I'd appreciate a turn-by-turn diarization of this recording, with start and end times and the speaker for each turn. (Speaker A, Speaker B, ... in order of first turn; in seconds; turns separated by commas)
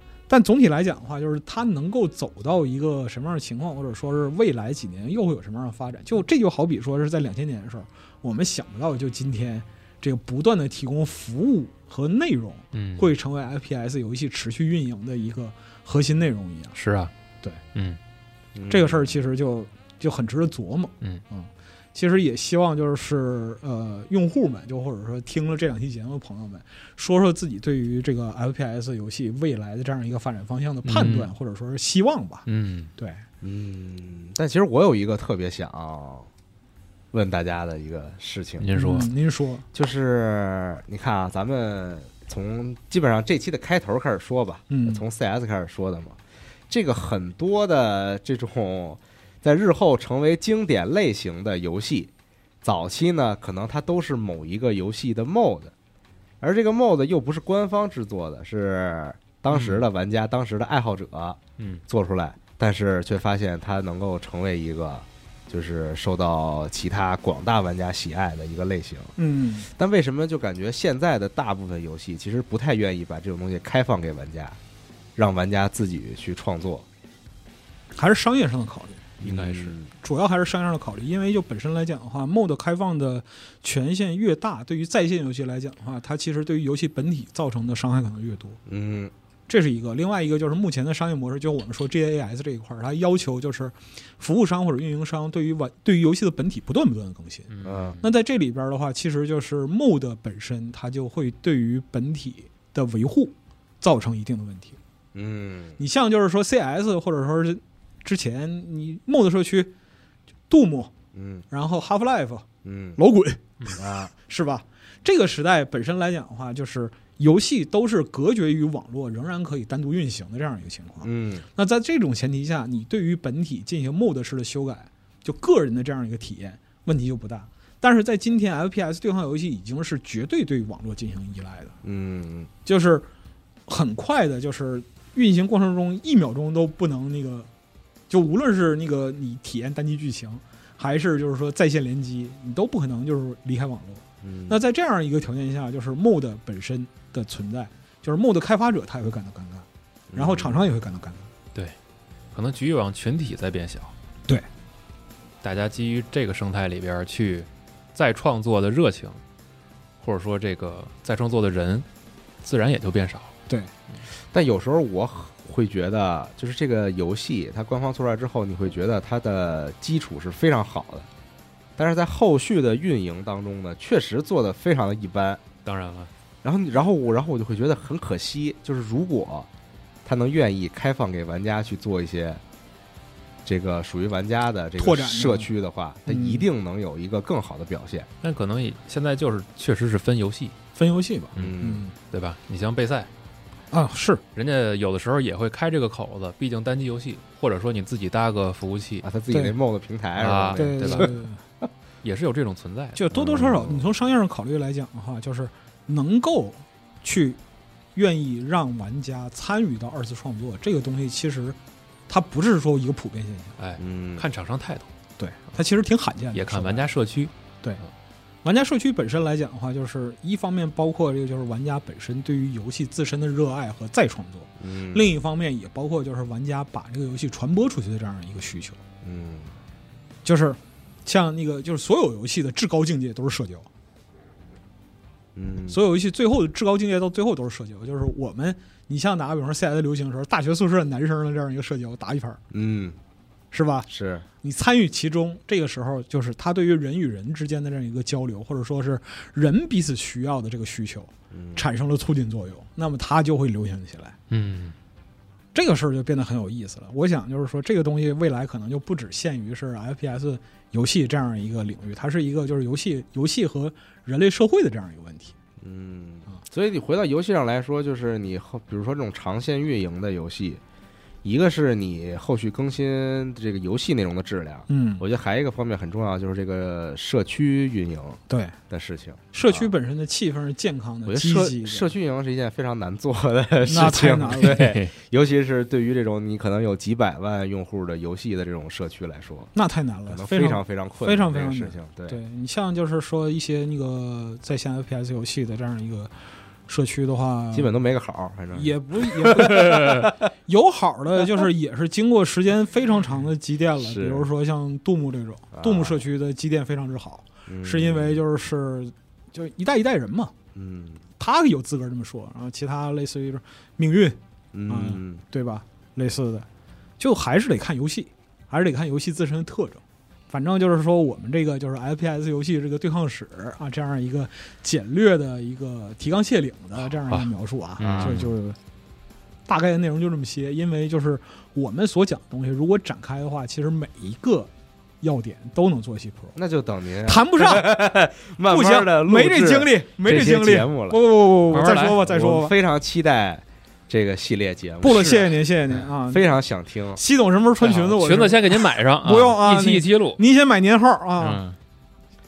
Speaker A: 0.3-16.7, Speaker B: 12.7-13.1, Speaker B: 16.8-17.1, Speaker C: 18.6-19.1, Speaker A: 18.7-32.5, Speaker B: 30.9-31.3, Speaker B: 32.5-32.9, Speaker A: 33.0-33.2, Speaker C: 33.4-36.3, Speaker C: 37.1-38.7, Speaker B: 38.6-39.1, Speaker A: 38.8-39.6, Speaker C: 39.7-52.1, Speaker A: 44.7-45.0, Speaker C: 52.6-55.7, Speaker C: 56.4-69.1, Speaker B: 59.5-59.8, Speaker A: 69.2-69.7, Speaker C: 69.7-74.6, Speaker C: 75.2-76.9, Speaker A: 77.9-79.1, Speaker B: 79.2-79.8, Speaker C: 79.2-79.9, Speaker A: 80.0-88.6, Speaker C: 88.7-89.1, Speaker A: 89.5-104.8, Speaker B: 97.5-98.0, Speaker C: 97.6-98.0, Speaker C: 105.1-105.8, Speaker A: 105.8-109.7, Speaker A: 110.5-110.9, Speaker C: 111.1-111.5, Speaker A: 111.5-131.8, Speaker C: 112.6-113.0, Speaker C: 113.8-114.1, Speaker C: 121.0-121.5, Speaker C: 131.8-132.5, Speaker A: 132.7-133.1, Speaker A: 133.7-137.5, Speaker A: 138.1-151.3, Speaker C: 144.2-144.6, Speaker C: 150.1-150.6, Speaker B: 152.3-153.9, Speaker B: 155.4-159.2, Speaker B: 160.0-161.9, Speaker B: 162.4-163.3, Speaker C: 164.3-171.1, Speaker C: 171.8-175.4, Speaker B: 175.7-176.1, Speaker C: 176.4-179.5, Speaker C: 180.1-182.4, Speaker C: 183.4-188.1, Speaker A: 184.8-185.5, Speaker A: 186.1-186.5, Speaker B: 188.2-190.6, Speaker A: 190.8-191.9, Speaker B: 191.3-193.1, Speaker C: 191.4-191.8, Speaker A: 193.7-194.2, Speaker B: 194.3-199.1, Speaker C: 199.0-201.2, Speaker B: 200.2-201.2, Speaker A: 200.5-201.4, Speaker B: 202.0-203.0, Speaker A: 202.9-207.4, Speaker C: 203.1-203.9, Speaker A: 207.9-213.6, Speaker B: 213.6-214.9, Speaker C: 213.8-214.3, Speaker A: 215.2-216.9, Speaker B: 216.3-217.3, Speaker A: 218.4-228.8, Speaker C: 224.6-225.1, Speaker C: 229.0-229.5, Speaker A: 230.2-233.7, Speaker C: 235.3-235.8, Speaker A: 235.7-242.4, Speaker C: 242.5-243.0, Speaker A: 243.5-243.9, Speaker C: 243.9-244.3, Speaker A: 244.4-254.2, Speaker C: 251.3-251.7, Speaker B: 254.3-254.8, Speaker A: 255.5-265.4, Speaker C: 265.6-270.6, Speaker C: 271.2-279.7, Speaker A: 274.7-275.0, Speaker A: 278.3-278.6, Speaker A: 279.3-281.9, Speaker C: 281.1-289.5, Speaker A: 283.7-284.8, Speaker B: 284.4-284.9, Speaker A: 289.6-296.1, Speaker C: 290.1-292.2, Speaker A: 296.7-297.7, Speaker C: 297.5-300.1, Speaker A: 298.6-310.3, Speaker C: 303.8-304.3, Speaker C: 305.5-306.0, Speaker C: 307.5-308.2, Speaker C: 310.6-311.0, Speaker A: 311.2-316.5, Speaker C: 314.5-315.2, Speaker A: 317.0-328.6, Speaker B: 327.8-328.3, Speaker C: 327.8-328.3, Speaker A: 329.5-334.5, Speaker A: 335.0-336.4, Speaker C: 336.4-341.0, Speaker A: 337.1-337.9, Speaker A: 338.5-342.5, Speaker B: 341.5-342.0, Speaker C: 341.5-347.0, Speaker A: 344.8-346.3, Speaker A: 347.0-351.4, Speaker B: 347.6-350.2, Speaker B: 351.2-351.6